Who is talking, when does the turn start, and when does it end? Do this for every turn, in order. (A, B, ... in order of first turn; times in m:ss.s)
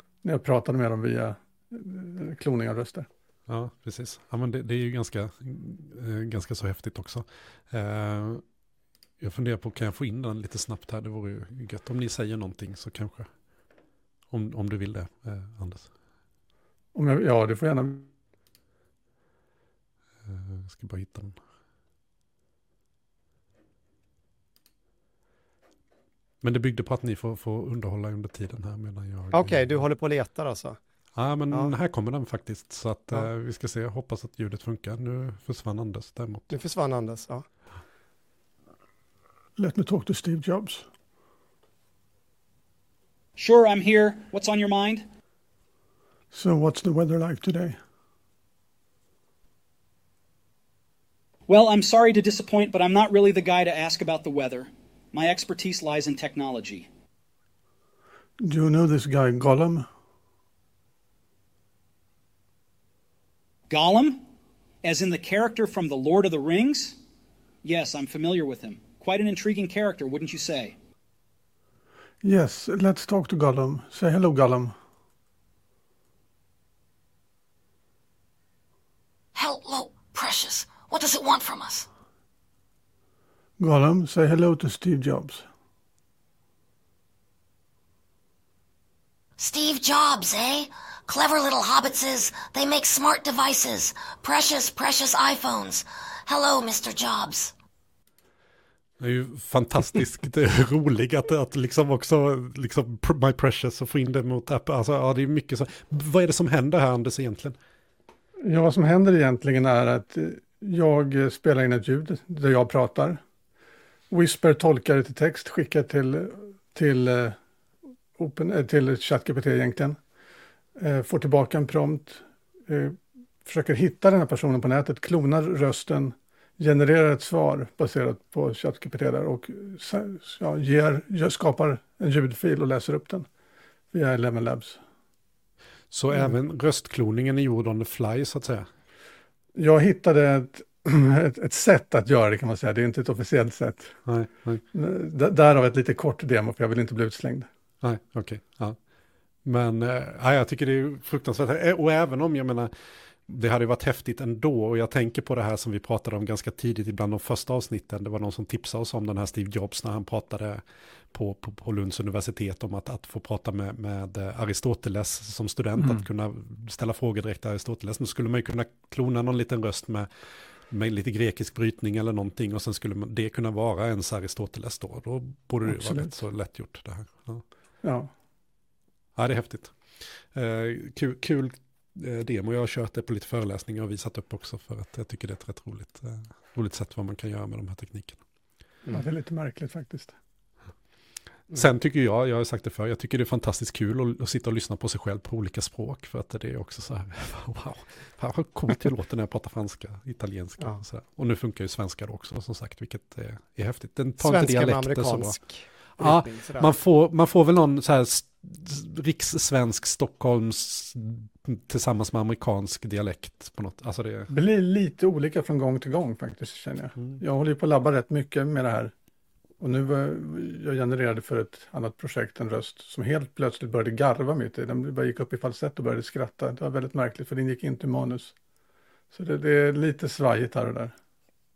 0:00.2-0:03.1 A
0:03.5-0:08.4 B
0:09.2-0:13.3 B
0:14.3-0:15.9 B
0:16.9-0:18.1 A
0:20.2-0:21.4 B
0:26.4-0:29.8 B
0:29.3-0:30.8 C
0:31.2-0:36.6 B
0:36.5-0:37.4 C
0:39.6-0:40.9 A
0:43.4-0:45.0 D
0:46.3-0:47.8 A
0:51.5-0:56.9 D
0:58.4-0:59.9 A
1:03.7-1:04.2 D
1:04.8-1:07.0 D
1:07.6-1:10.7 D
1:12.2-1:14.7 A
1:19.3-1:21.9 E
1:23.6-1:25.4 A
1:29.4-1:37.5 E
1:39.0-1:47.6 B
1:48.4-1:53.2 A
1:54.1-1:57.4 A
1:58.2-2:00.0 A
2:00.8-2:13.3 A
2:13.9-2:14.8 A
2:15.9-2:18.7 B
2:19.5-2:24.0 A
2:24.0-2:24.6 B
2:24.7-2:27.5 A
2:27.8-2:28.8 B
2:29.4-2:32.7 B
2:33.2-2:50.1 B
2:45.8-2:46.0 A
2:50.7-2:57.4 B
2:55.6-2:56.1 A
2:57.8-2:58.1 A
2:59.2-3:08.2 B
3:08.9-3:10.1 A
3:11.5-3:25.4 B
3:24.2-3:26.7 C
3:26.0-3:34.3 B
3:34.3-3:38.9 A
3:39.6-3:48.3 A
3:49.1-3:50.9 A